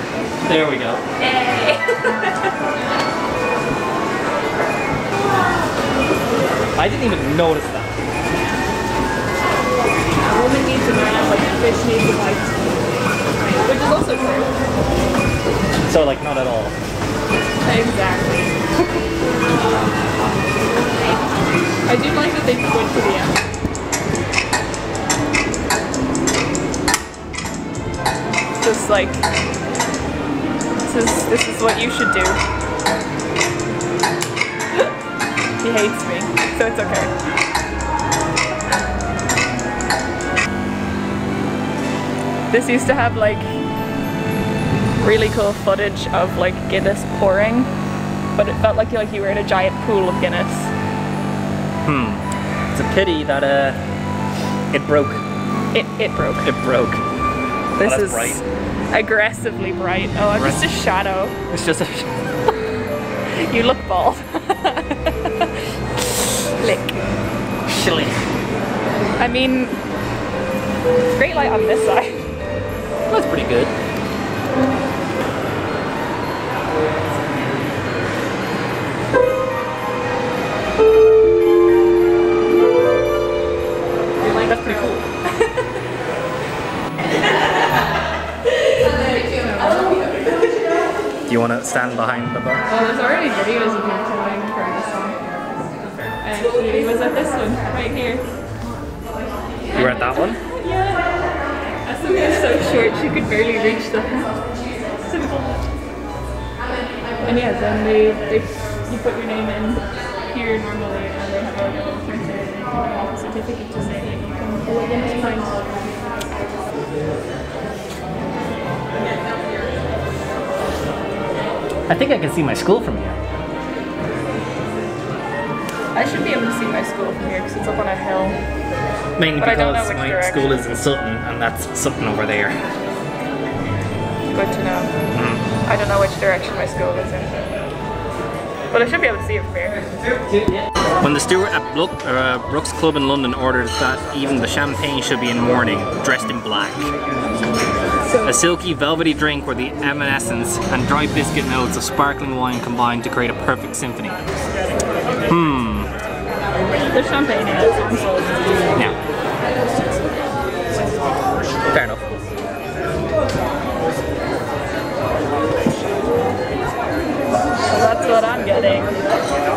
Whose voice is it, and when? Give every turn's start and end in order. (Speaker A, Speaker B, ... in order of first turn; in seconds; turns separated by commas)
Speaker A: 0.4-1.0, Speaker B: 1.2-2.4, Speaker A: 6.8-8.0, Speaker B: 10.2-12.5, Speaker B: 13.6-14.5, Speaker A: 15.8-16.8, Speaker B: 17.6-18.6, Speaker B: 21.8-23.4, Speaker B: 28.6-29.2, Speaker B: 30.8-32.4, Speaker B: 35.6-37.1, Speaker B: 42.5-43.5, Speaker B: 45.0-47.7, Speaker B: 48.3-50.7, Speaker A: 51.9-52.2, Speaker A: 52.7-53.8, Speaker A: 54.7-55.2, Speaker B: 55.7-56.5, Speaker A: 56.4-57.0, Speaker B: 57.8-61.3, Speaker A: 57.8-58.4, Speaker A: 60.3-60.6, Speaker A: 61.5-62.1, Speaker B: 63.4-67.0, Speaker A: 67.7-68.2, Speaker B: 69.2-69.7, Speaker B: 71.1-72.2, Speaker A: 73.1-73.7, Speaker B: 84.2-85.5, Speaker A: 84.3-85.0, Speaker B: 88.9-90.0, Speaker A: 91.3-92.7, Speaker B: 92.7-95.2, Speaker B: 96.2-98.3, Speaker B: 99.7-101.2, Speaker A: 99.7-100.4, Speaker B: 101.8-104.4, Speaker B: 105.0-105.5, Speaker B: 107.2-115.8, Speaker A: 121.9-123.2, Speaker B: 125.9-128.4, Speaker A: 129.2-132.6, Speaker B: 129.4-130.7, Speaker B: 134.3-134.9, Speaker A: 135.1-135.4, Speaker B: 135.6-137.6, Speaker B: 138.7-139.8, Speaker A: 140.1-146.9, Speaker B: 148.0-148.4, Speaker A: 148.2-154.2, Speaker A: 155.3-155.9, Speaker B: 156.8-158.7, Speaker A: 161.7-162.0, Speaker B: 167.7-168.9